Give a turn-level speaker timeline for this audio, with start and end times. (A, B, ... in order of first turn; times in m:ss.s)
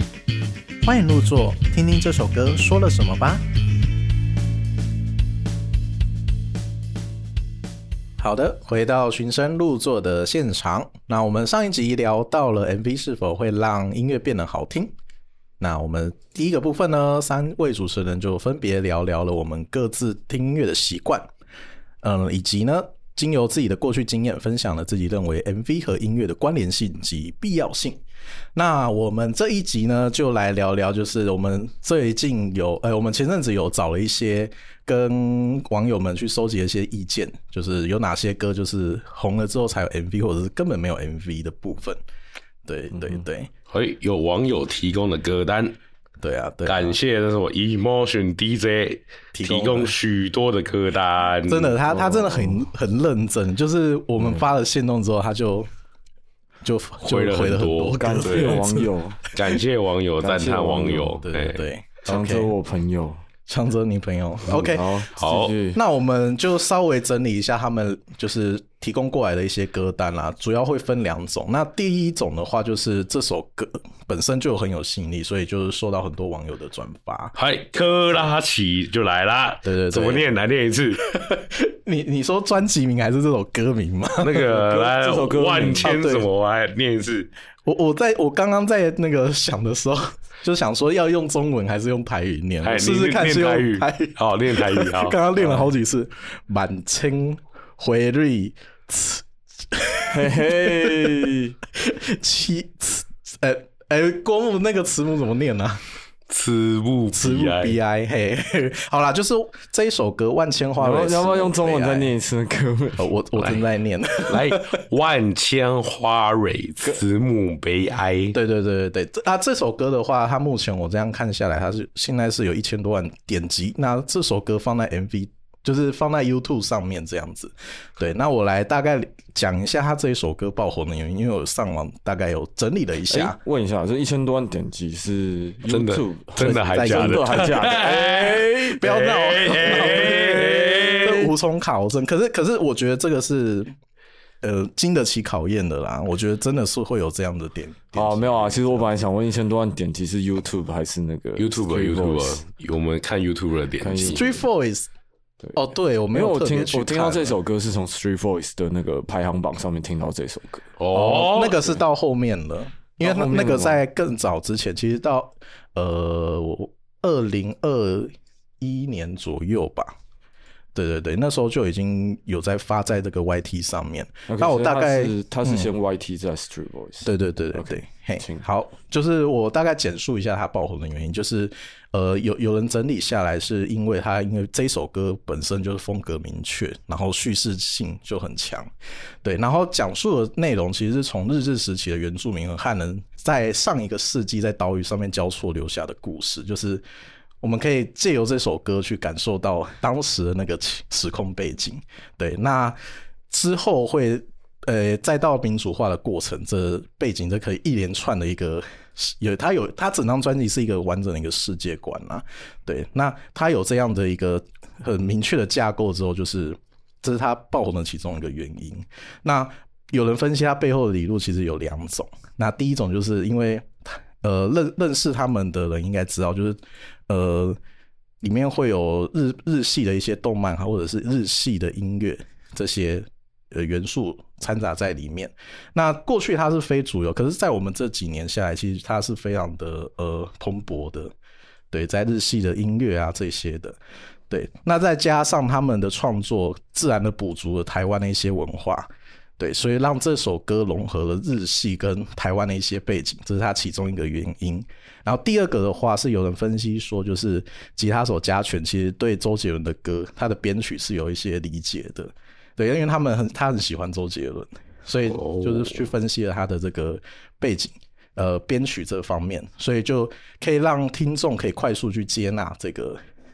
0:00.8-0:03.4 A
0:08.2-0:14.9 A
0:15.6-0:21.3 A
0:22.0-0:28.0 A
0:28.5-0:42.0 A
0:42.6-0:43.5 A
0:42.9-0:43.2 B
0:43.7-0:45.8 C
0:46.2-0:47.0 A
0:46.6-0:51.8 C
0:49.3-0:49.9 A
0:51.5-0:55.7 A
0:51.9-0:52.7 B
0:56.6-0:58.9 A
0:57.0-0:58.6 C
0:58.0-0:59.2 B
0:59.3-1:01.6 C
1:00.2-1:01.2 B
1:00.8-1:02.5 A
1:02.0-1:03.2 B
1:03.5-1:05.1 A
1:04.4-1:05.8 B
1:05.2-1:05.5 C
1:05.7-1:17.4 A
1:17.4-1:21.0 C
1:19.6-1:20.2 A
1:21.1-1:24.4 A
1:24.2-1:27.3 C
1:24.4-1:25.9 B
1:25.8-1:26.3 A
1:27.6-1:45.8 A
1:32.6-1:35.2 C
1:35.4-1:35.7 B
1:40.1-1:41.5 B
1:46.3-1:47.8 C
1:47.1-1:52.1 A
1:50.8-1:53.1 B
1:53.0-1:54.8 A
1:53.4-1:53.6 C
1:54.2-1:58.4 C
1:58.3-2:13.4 A
2:13.1-2:21.3 B
2:15.7-2:21.2 C
2:16.4-2:17.6 A
2:18.6-2:23.7 A
2:24.4-2:29.0 A
2:27.9-2:32.4 B
2:31.4-2:34.2 C
2:33.8-2:34.4 B
2:34.1-2:34.9 A
2:35.5-2:37.4 A
2:36.1-2:40.7 B
2:40.8-2:41.6 C
2:40.9-2:49.9 A
2:43.0-2:43.8 B
2:50.7-2:55.7 A
2:54.3-2:58.4 B
2:57.0-3:08.7 A
3:09.2-3:16.8 A
3:17.4-3:22.8 A
3:23.3-3:47.6 A
3:48.2-4:01.1 A
4:01.7-4:03.8 A
4:04.3-4:33.0 A
4:25.1-4:25.9 C